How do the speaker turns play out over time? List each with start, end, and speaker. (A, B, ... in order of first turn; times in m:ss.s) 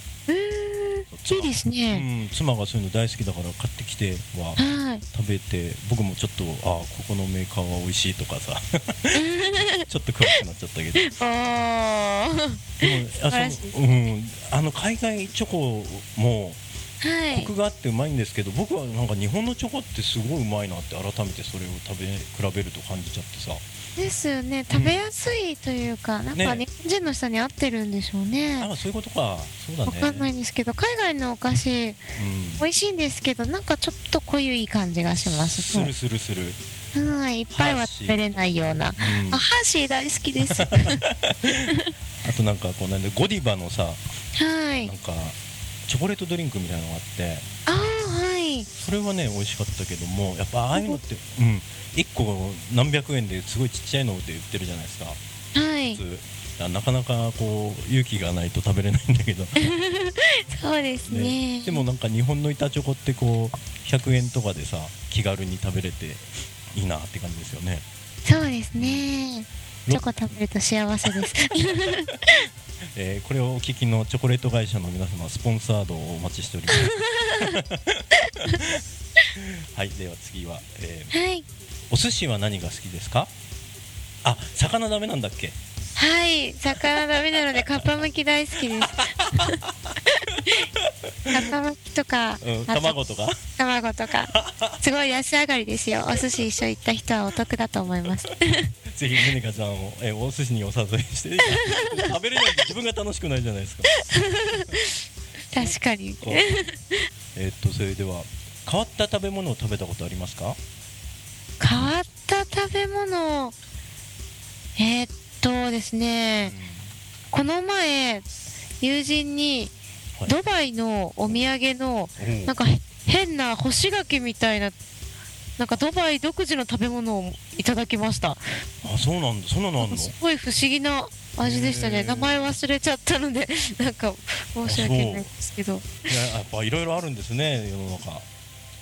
0:00.3-0:02.0 A
0:01.1-0:11.1 B
0:04.6-0:05.0 A
0:09.1-0:10.4 A
0:11.0-0:13.7 A
0:12.8-0:16.6 B
0:17.0-0:17.5 A
0:17.3-0:23.7 B
0:24.0-0:28.7 A
0:24.7-0:25.0 B
0:26.3-0:26.6 B
0:28.6-0:30.3 B
0:29.8-0:32.0 A
0:32.1-0:32.6 B
0:32.6-0:35.9 A
0:35.2-0:36.6 B
0:36.9-0:41.0 A
0:37.5-0:38.2 B
0:39.0-0:39.4 B
0:40.5-0:44.0 B
0:41.5-0:41.9 A
0:44.4-0:44.9 A
0:44.8-0:47.4 B
0:47.7-0:48.7 A
0:48.7-0:55.2 B
0:50.7-0:51.0 A
0:55.5-0:56.0 A
0:55.9-0:59.6 B
0:59.6-1:01.8 A
1:01.0-1:07.8 B
1:08.2-1:12.1 A
1:08.8-1:09.1 B
1:09.8-1:10.3 B
1:11.0-1:12.3 B
1:12.9-1:18.8 B
1:16.7-1:17.6 A
1:19.3-1:21.2 B
1:21.1-1:21.4 A
1:21.9-1:23.3 B
1:24.2-1:25.6 B
1:26.0-1:29.6 A
1:26.8-1:27.9 B
1:28.7-1:31.4 B
1:30.3-1:30.6 A
1:31.3-1:38.7 A
1:32.4-1:33.4 B
1:34.3-1:34.8 B
1:38.9-1:44.0 B
1:41.4-1:42.1 A
1:44.1-1:44.6 A
1:44.5-1:44.7 B
1:45.5-1:47.0 A
1:45.5-1:46.5 B
1:47.3-1:50.6 B
1:51.6-1:53.5 A
1:51.7-1:52.0 B
1:54.8-1:56.5 A
1:56.4-1:56.9 B
1:57.3-1:58.2 A
1:58.8-1:59.7 A
2:00.3-2:04.7 A
2:02.2-2:02.6 B
2:05.6-2:08.4 A
2:08.8-2:10.1 B
2:09.8-2:16.2 A
2:11.4-2:12.5 B
2:14.6-2:15.3 B
2:16.1-2:18.3 B